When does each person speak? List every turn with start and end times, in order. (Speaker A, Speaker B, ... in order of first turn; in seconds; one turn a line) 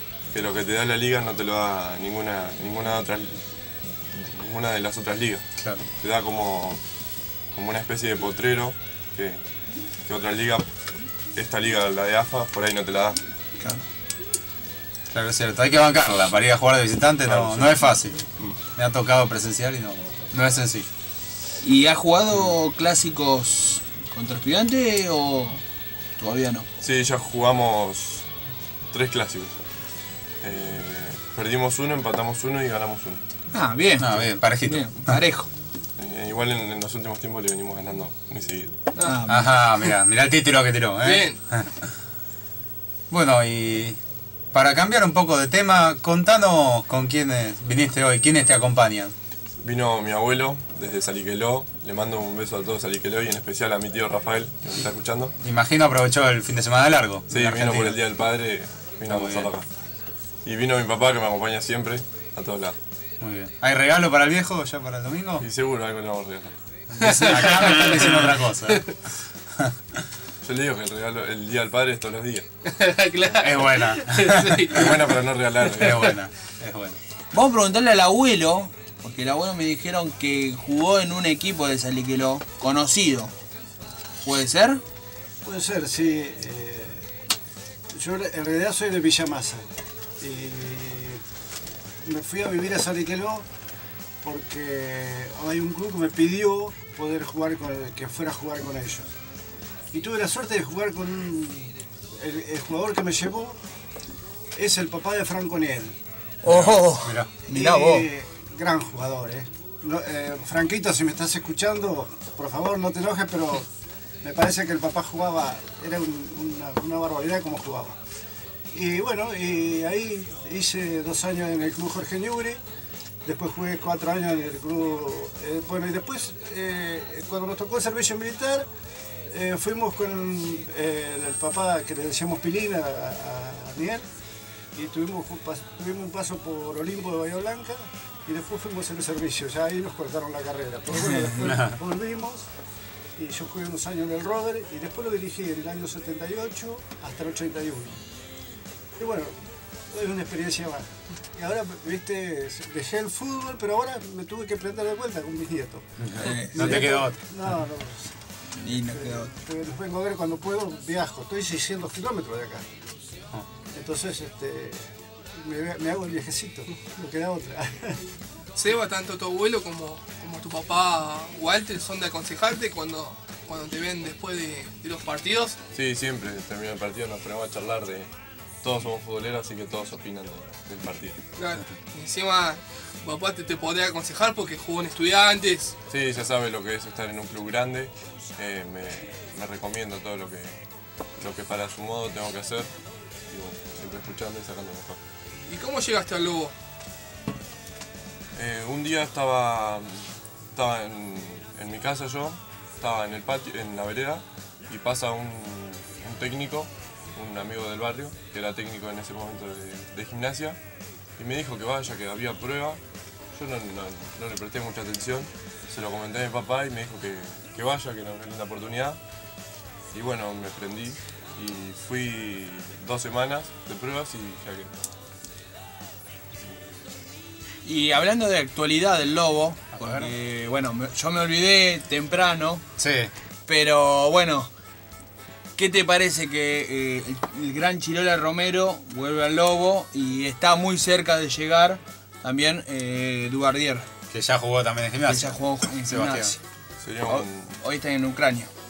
Speaker A: 0.3-5.4
Speaker B: 5.6-5.8
Speaker A: 6.0-6.8
Speaker A: 7.5-9.4
Speaker A: 10.1-10.7
Speaker A: 11.3-13.2
Speaker B: 15.1-20.9
Speaker A: 17.2-17.8
Speaker C: 21.6-25.6
Speaker C: 26.2-26.7
Speaker A: 26.8-28.3
Speaker A: 28.9-29.6
Speaker A: 30.4-33.2
Speaker C: 33.5-35.5
Speaker B: 34.0-35.2
Speaker A: 36.0-38.7
Speaker D: 38.9-39.2
Speaker C: 39.0-39.5
Speaker B: 39.3-41.8
Speaker D: 41.0-41.4
Speaker B: 43.1-44.0
Speaker B: 44.5-49.1
Speaker A: 49.6-55.4
Speaker B: 55.4-58.0
Speaker A: 57.3-59.7
Speaker B: 59.1-59.5
Speaker A: 60.4-62.8
Speaker B: 63.2-65.5
Speaker A: 65.4-66.5
Speaker B: 66.9-68.9
Speaker D: 67.0-68.9
Speaker A: 70.4-72.5
Speaker D: 72.7-76.1
Speaker B: 73.4-74.9
Speaker A: 74.8-76.1
Speaker B: 75.8-77.0
Speaker C: 77.3-83.3
Speaker C: 84.2-84.8
Speaker E: 85.4-87.1
Speaker E: 87.9-89.7
Speaker E: 90.2-91.2
Speaker E: 92.0-93.5
Speaker E: 94.2-99.1
Speaker E: 99.9-103.6
Speaker E: 104.5-106.0
Speaker C: 106.4-108.1
Speaker B: 106.5-107.3
Speaker E: 107.5-113.7
Speaker E: 114.2-118.0
Speaker E: 118.7-122.6
Speaker E: 123.2-128.7
Speaker E: 129.3-134.1
Speaker E: 134.7-142.4
Speaker B: 141.4-141.8
Speaker E: 143.2-148.0
Speaker E: 149.0-158.1
Speaker B: 156.0-157.2
Speaker C: 156.2-156.9
Speaker C: 158.6-159.3
Speaker E: 158.8-162.6
Speaker E: 163.7-168.0
Speaker D: 168.6-175.6
Speaker A: 175.7-178.1
Speaker A: 178.6-181.2
Speaker D: 181.4-185.8
Speaker A: 185.9-190.6
Speaker A: 191.2-192.7
Speaker A: 193.3-195.0
Speaker D: 195.4-196.5
Speaker A: 198.3-210.6
Speaker A: 211.2-212.8
Speaker A: 213.3-219.0
Speaker A: 219.9-224.7
Speaker C: 227.6-232.6
Speaker B: 229.7-230.1
Speaker B: 232.8-233.1
Speaker C: 233.5-234.5
Speaker C: 235.6-243.9
Speaker B: 244.1-246.4
Speaker C: 245.0-246.4
Speaker A: 246.8-247.6
Speaker C: 247.0-248.5